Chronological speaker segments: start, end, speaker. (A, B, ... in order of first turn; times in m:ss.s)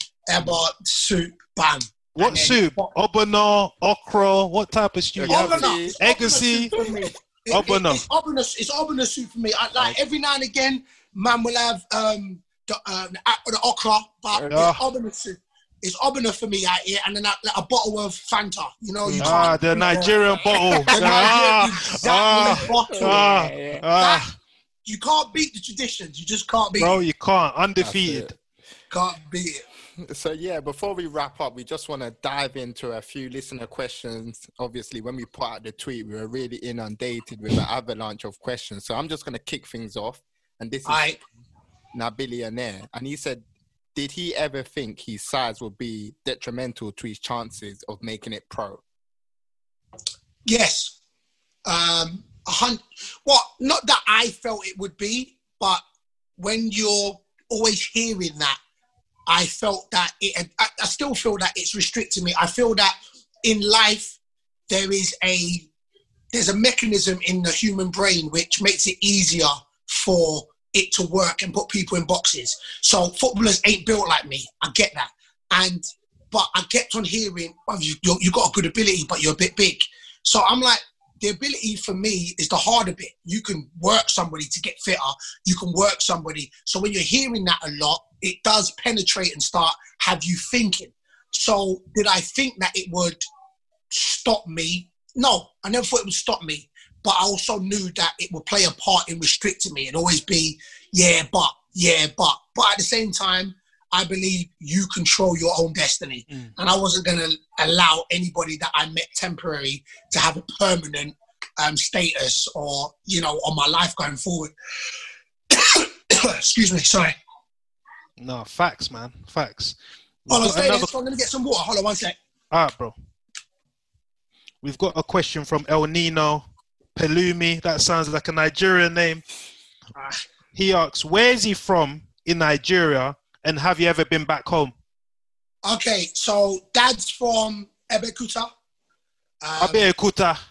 0:00.3-0:02.9 A
0:02.2-0:06.8 B
0:05.2-0:06.0 C
0:05.3-0:23.3 A
0:06.7-0:07.1 C
0:07.5-0:08.0 B
0:14.3-0:14.8 C
0:14.5-0:14.8 B
0:19.0-0:21.4 C
0:19.2-0:24.3 B
0:22.1-0:23.8 C
0:24.0-0:24.3 A
0:24.9-0:27.0 A
0:26.8-0:28.4 B
0:27.8-0:28.3 C
0:28.9-0:29.6 A
0:30.0-0:41.1 C
0:40.8-0:41.2 A
0:41.9-0:43.4 C
0:44.0-0:48.8 C
0:50.5-0:51.0 A
0:51.7-0:55.8 A
0:56.4-0:58.6 A
0:59.3-1:04.2 A
1:04.7-1:05.7 A
1:06.3-1:33.2 A
1:33.9-1:54.5 A
1:55.5-1:57.1 A
1:58.2-2:00.9 B
2:00.3-2:02.2 A
2:02.5-2:02.9 B
2:04.6-2:06.4 B
2:07.0-2:09.2 B
2:10.0-2:10.2 A
2:10.6-2:14.7 B
2:15.6-2:18.5 A
2:19.4-2:19.9 A
2:19.6-2:20.4 B